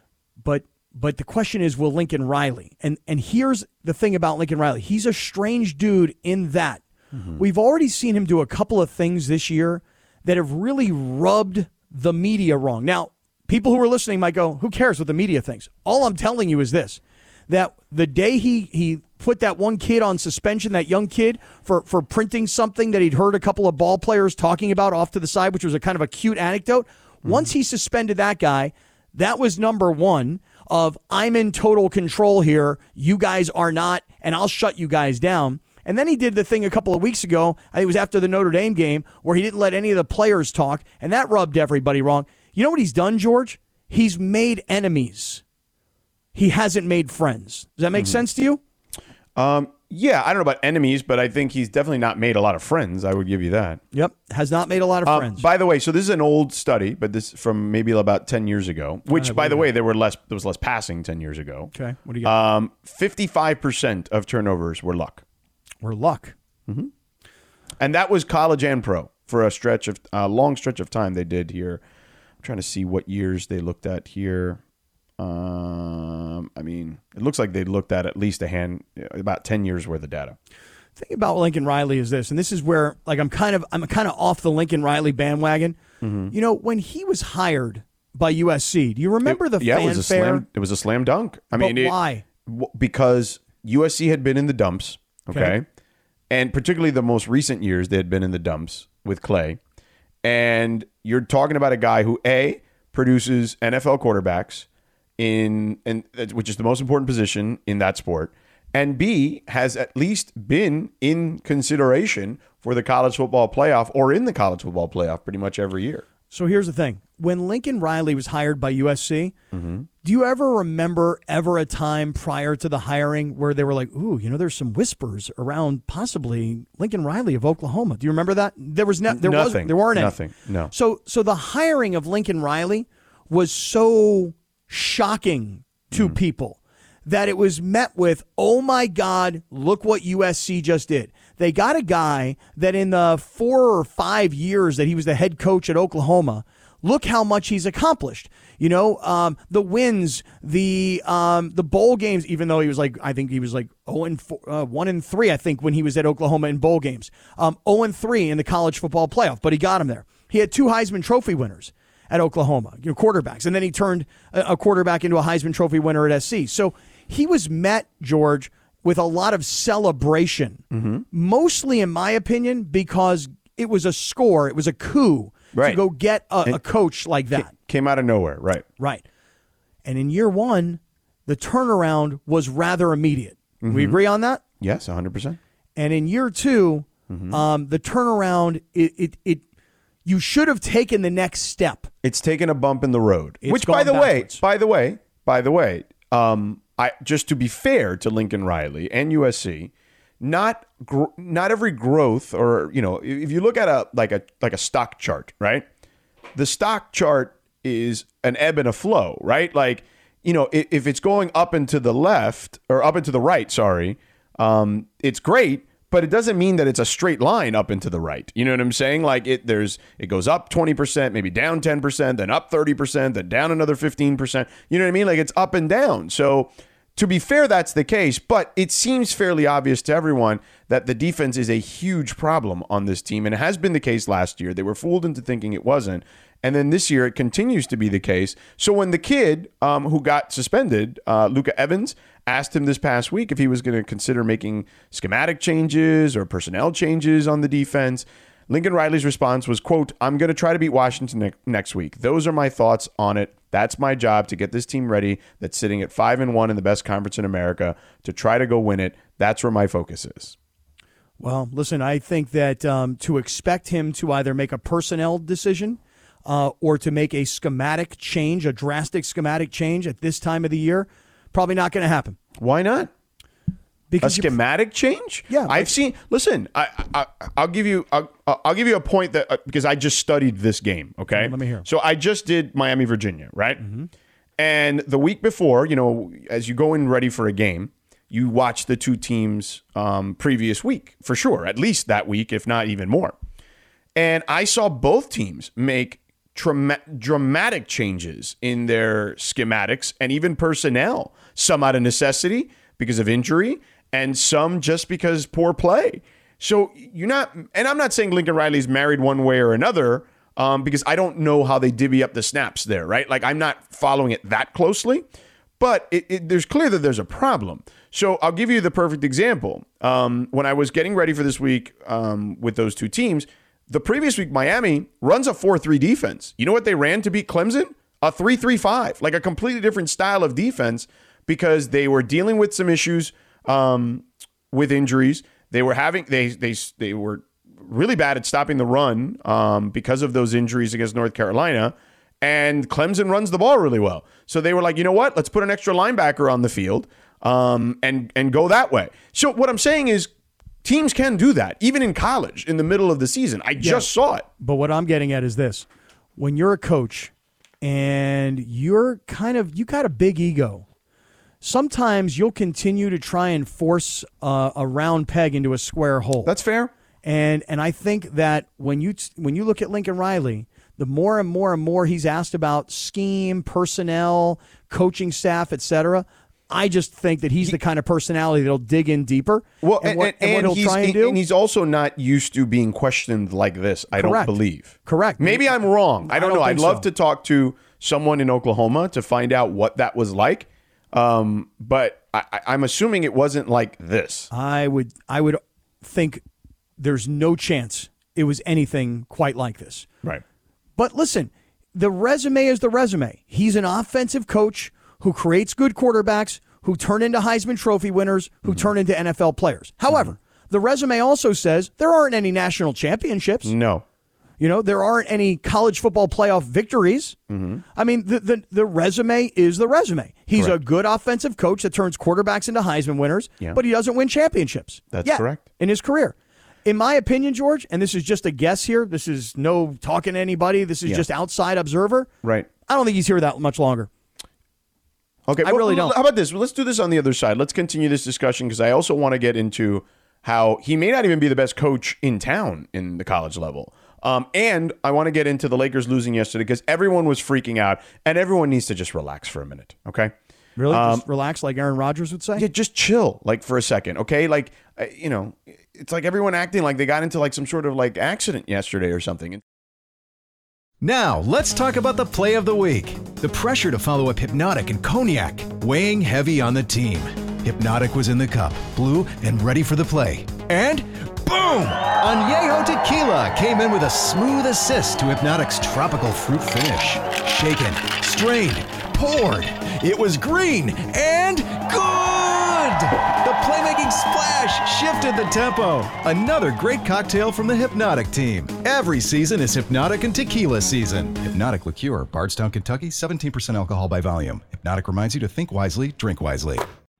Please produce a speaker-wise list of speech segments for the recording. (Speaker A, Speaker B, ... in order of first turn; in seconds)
Speaker A: 0.4-6.8, 7.4-45.4, 46.3-48.6, 53.9-55.5, 59.1-59.7, 61.7-62.3, 65.8-66.3, 81.0-85.8, 86.3-90.4, 91.5-92.2, 95.3-95.6, 116.3-119.3, 120.0-130.2, 130.7-177.5, 179.8-184.4, 185.8-189.4, 190.1-191.9, 193.4-194.4, 261.2-272.2, 273.9-274.3, 275.3-275.7, 281.1-281.6, 283.6-283.9, 353.6-355.6, 356.2-357.1, 357.6-360.6, 361.4-366.3, 367.0-381.2, 383.9-386.9, 394.3-396.2, 396.8-399.9, 400.8-413.5, 414.4-417.2, 417.8-432.1, 432.6-433.9, 435.4-435.9, 450.6-452.5
Speaker B: 7.1-7.5, 27.2-27.5, 49.4-53.8, 55.1-61.7, 62.2-65.2, 67.8-71.8, 72.4-74.6, 75.2-80.4, 86.0-86.3, 89.2-95.6, 96.3-99.6, 100.2-104.7, 105.2-116.0, 119.5-119.9, 129.1-130.7, 135.9-136.2, 170.7-171.1, 175.5-175.8, 177.3-178.6, 183.6-184.0, 184.6-185.4, 187.1-187.4, 192.0-205.6, 206.3-260.4, 272.4-272.9, 274.0-283.6, 284.4-293.1, 294.0-315.0, 315.6-350.1, 350.6-354.3, 366.2-366.7, 379.6-394.3, 413.4-413.9, 417.3-417.6, 424.9-425.4, 432.2-432.5, 435.3-450.1, 450.7-451.0, 452.4-459.4
Speaker C: 460.8-496.6